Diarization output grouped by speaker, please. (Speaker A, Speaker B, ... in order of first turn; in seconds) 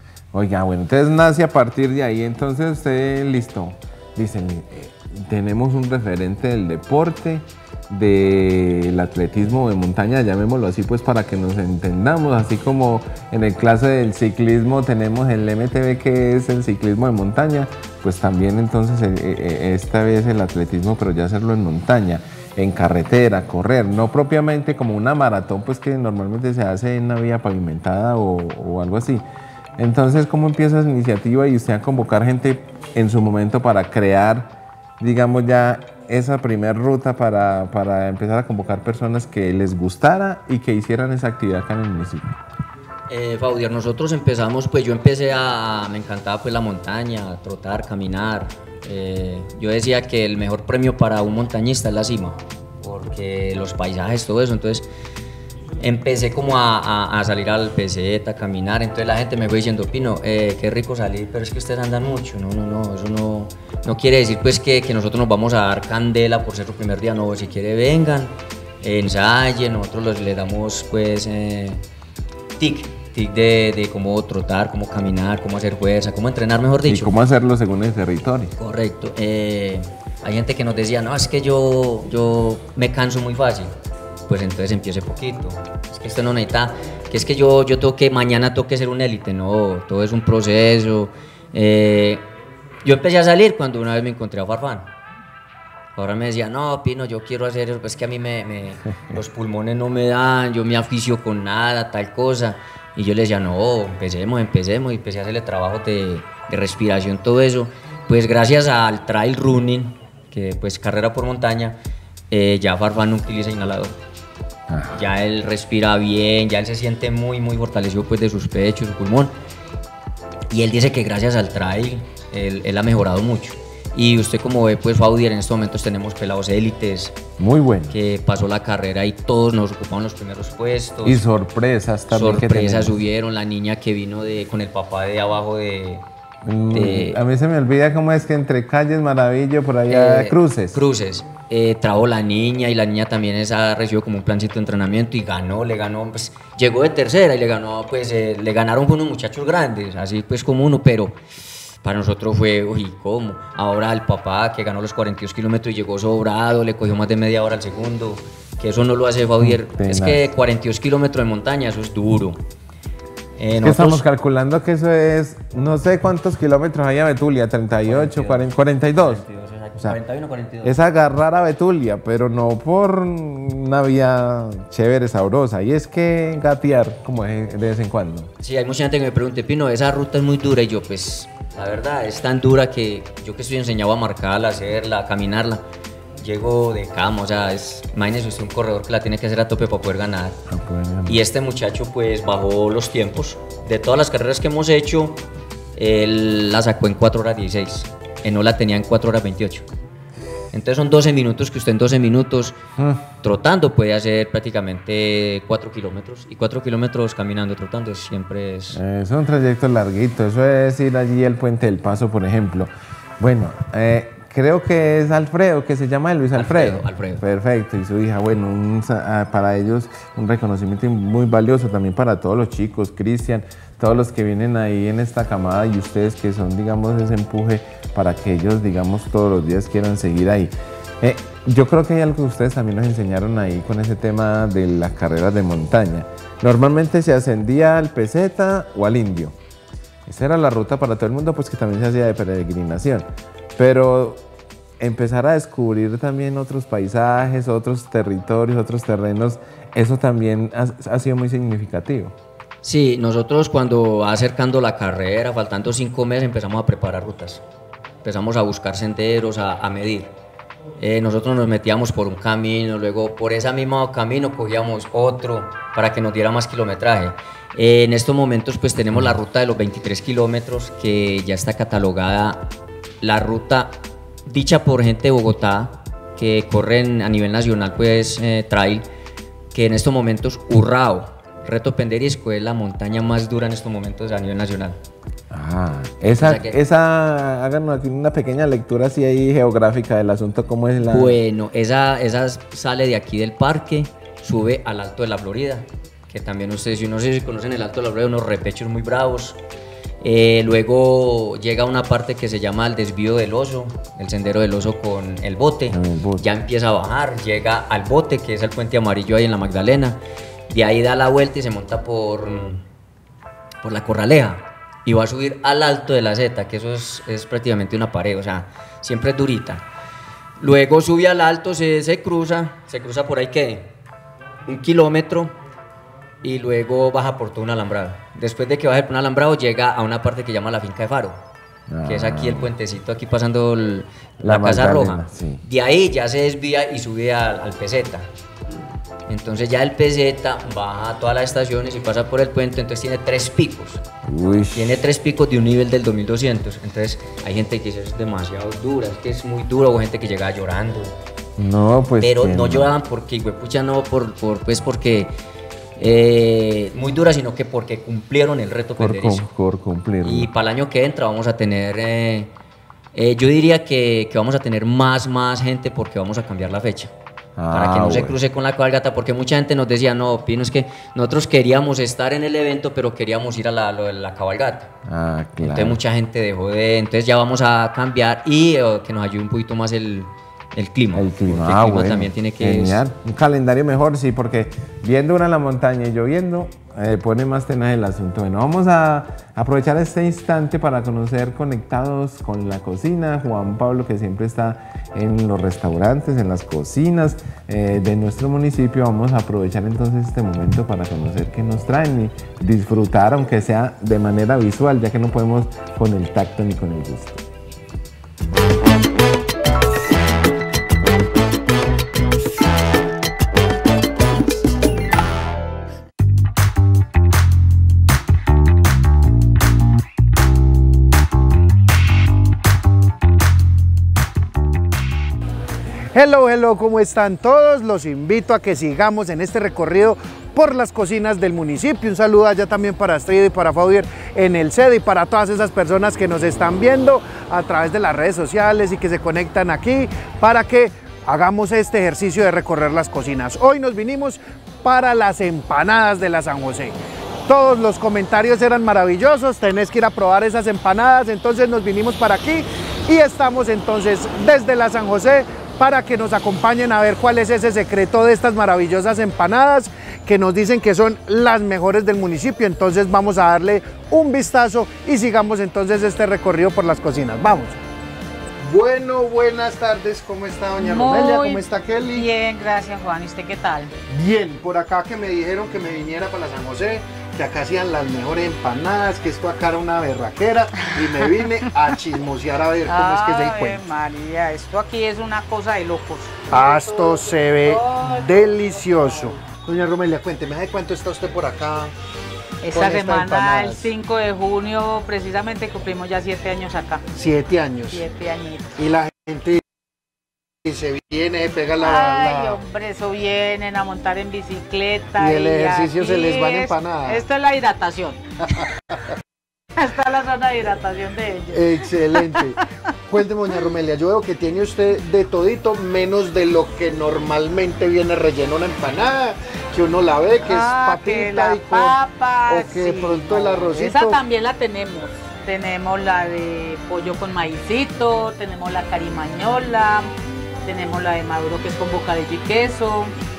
Speaker A: 0.3-29.2, 29.8-42.4, 76.8-78.5, 114.7-115.0, 127.4-128.0, 131.0-133.0, 136.4-140.8, 159.4-160.3, 163.6-169.2, 170.6-178.3, 190.5-191.2, 202.8-203.0, 208.7-239.4, 240.1-244.3, 244.8-252.1, 285.3-291.2, 305.7-306.3, 331.7-332.5, 334.2-335.4, 344.1-344.8, 351.4-352.7, 358.8-360.3, 367.4-368.2, 374.9-375.8, 380.9-407.2
Speaker B: 43.1-54.9, 55.8-71.8, 72.6-77.1, 78.6-83.7, 84.3-92.3, 92.8-94.9, 96.0-111.8, 112.3-114.0, 114.9-119.3, 120.5-127.2, 127.9-131.2, 132.1-136.1, 136.7-137.2, 139.9-151.2, 151.8-162.4, 163.4-164.0, 167.8-170.8, 178.4-185.6, 186.2-190.4, 191.1-195.2, 195.8-199.6, 200.5-202.6, 203.2-208.8, 216.3-217.2, 252.6-257.4, 258.0-260.1, 260.8-272.5, 273.0-278.9, 279.5-284.8, 286.2-286.6, 290.9-299.4, 300.0-312.6, 313.6-319.6, 320.4-323.7, 324.4-325.4, 326.2-331.2, 331.8-338.1, 339.1-343.8, 344.5-350.9, 352.0-355.1, 355.8-359.3, 360.0-362.3, 362.9-366.9, 367.5-374.7, 375.4-382.8
Speaker C: 425.9-446.8, 447.3-467.6, 468.4-472.1, 473.9-483.6, 486.3-491.7, 492.5-493.7, 496.9-497.8, 498.6-499.4, 500.4-502.4, 505.0-507.1, 511.3-512.4, 512.9-521.8, 522.3-524.0
Speaker D: 470.6-473.8, 480.6-481.2, 482.7-489.2, 492.4-496.8, 497.7-498.5, 501.6-508.0, 509.6-512.4, 520.1-529.9, 530.5-532.9